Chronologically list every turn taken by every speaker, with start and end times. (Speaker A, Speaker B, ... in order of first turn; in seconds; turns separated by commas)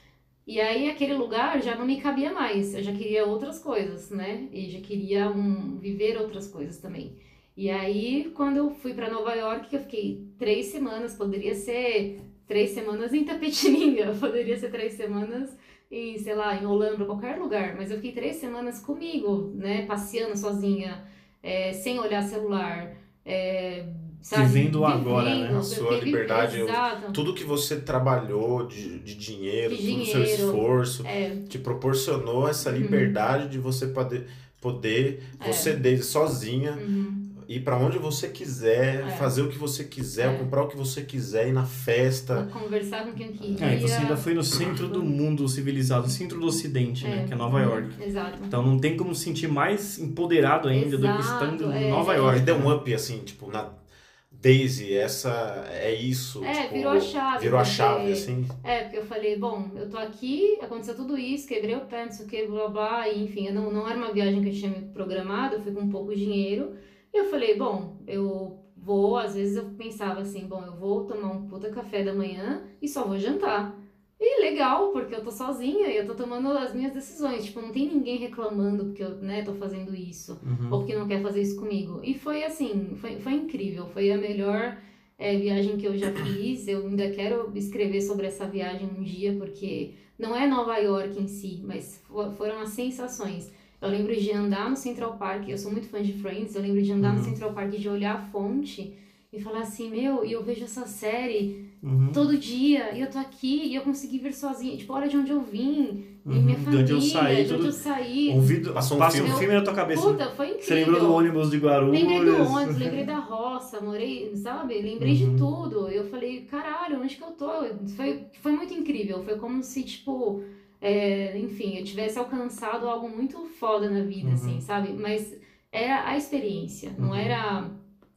Speaker A: 0.5-27.2, Speaker B: 24.3-25.6, Speaker C: 25.5-36.8, Speaker A: 29.7-31.5, Speaker A: 32.6-33.1, Speaker A: 35.4-35.8, Speaker A: 36.8-37.3, Speaker C: 37.3-42.5, Speaker A: 39.0-39.3, Speaker A: 40.2-40.5, Speaker A: 42.3-45.1, Speaker C: 43.4-43.9, Speaker B: 43.6-52.7, Speaker A: 47.0-48.5, Speaker A: 50.7-52.5, Speaker C: 52.2-53.8, Speaker C: 54.3-58.5, Speaker A: 56.4-111.3, Speaker B: 80.4-80.8, Speaker B: 97.0-97.3, Speaker B: 101.8-102.2, Speaker B: 106.2-113.0, Speaker C: 108.7-109.5, Speaker A: 111.9-127.8, Speaker B: 115.0-115.5, Speaker B: 124.2-124.6, Speaker B: 127.0-127.4